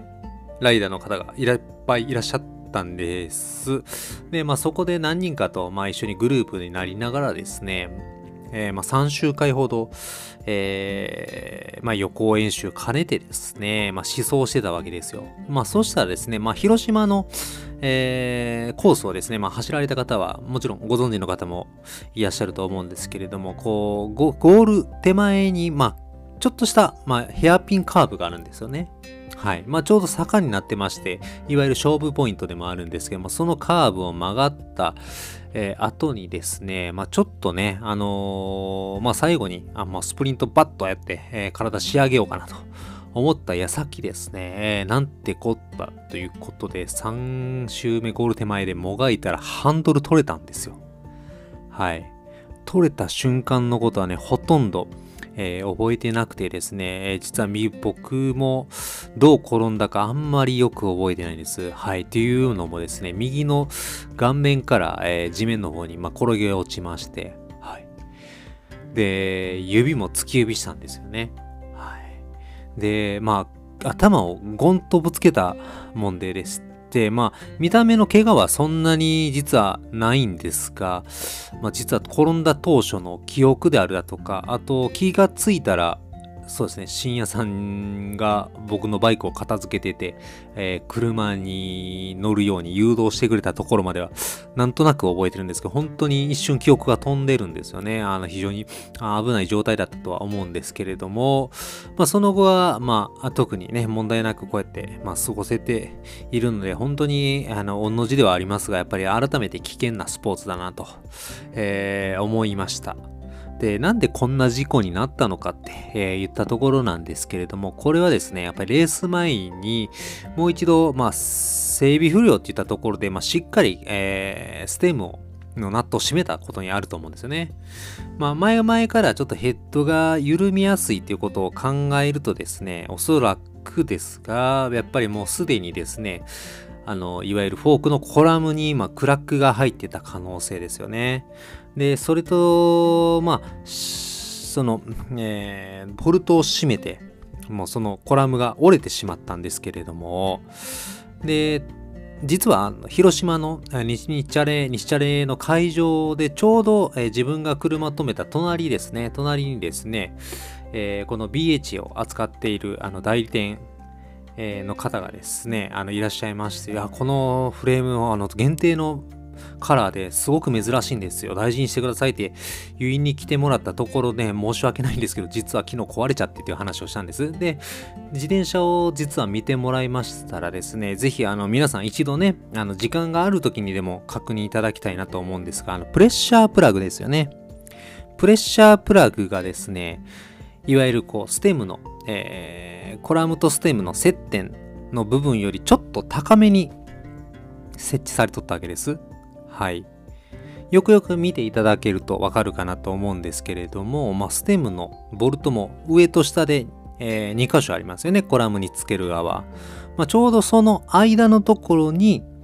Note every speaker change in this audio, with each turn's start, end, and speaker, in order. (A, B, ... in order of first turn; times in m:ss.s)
0:00.6-0:50.8 A
0:51.7-0:52.1 A
0:52.6-1:07.8 A
1:08.9-1:12.2 A
1:12.8-1:53.0 A
1:53.6-2:07.6 A
2:08.2-2:16.3 A
2:16.8-2:31.7 A
2:32.2-2:43.6 A
2:44.4-2:49.1 A
2:49.6-3:07.3 A
3:08.2-3:10.1 A
3:10.6-3:16.7 A
3:17.7-3:19.9 A
3:20.7-3:32.2 A